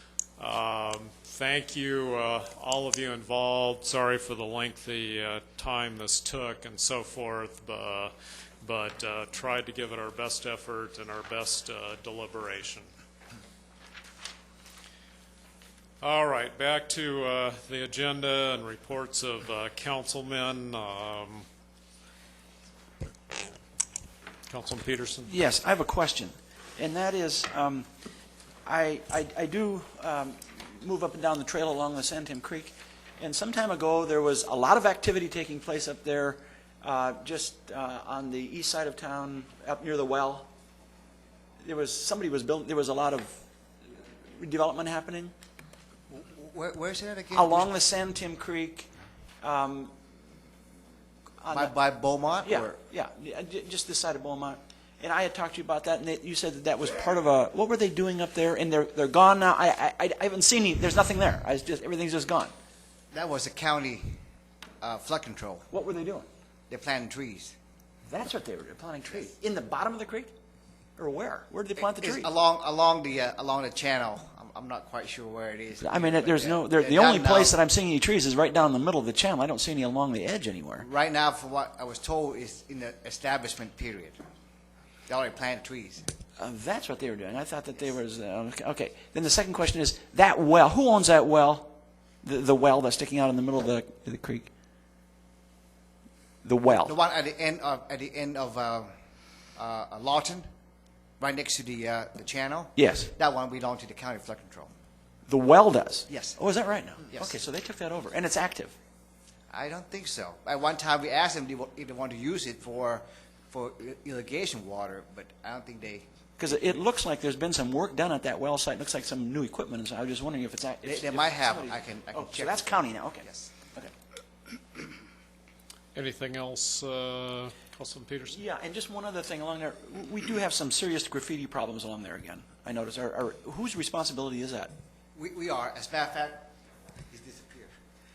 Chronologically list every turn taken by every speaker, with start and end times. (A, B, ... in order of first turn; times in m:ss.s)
0:00.4-0:12.9 A
0:16.0-0:21.4 A
0:24.5-0:25.3 A
0:25.2-0:27.9 B
0:28.7-0:40.5 B
0:41.6-0:43.3 B
0:44.2-0:45.3 B
0:46.1-0:47.7 C
0:47.3-0:48.9 B
0:49.4-0:49.9 B
0:51.4-0:51.8 B
0:51.5-0:52.7 C
0:52.4-1:02.5 B
1:03.1-1:04.2 C
1:04.8-1:05.7 C
1:05.7-1:06.3 B
1:06.7-1:07.6 C
1:08.1-1:10.3 B
1:11.0-1:12.3 B
1:11.8-1:17.6 C
1:15.8-1:20.9 B
1:20.8-1:24.2 C
1:25.1-1:26.1 C
1:26.4-1:34.5 B
1:36.4-1:37.0 B
1:36.8-1:38.9 C
1:39.6-1:40.5 C
1:41.2-1:44.7 C
1:42.8-1:43.1 B
1:45.3-1:48.7 B
1:46.1-1:46.4 C
1:47.0-1:47.4 C
1:49.5-1:56.1 C
1:56.4-2:03.9 B
2:00.8-2:03.6 C
2:05.9-2:08.4 A
2:08.3-2:14.7 B
2:15.1-2:16.5 C
2:17.1-2:17.7 C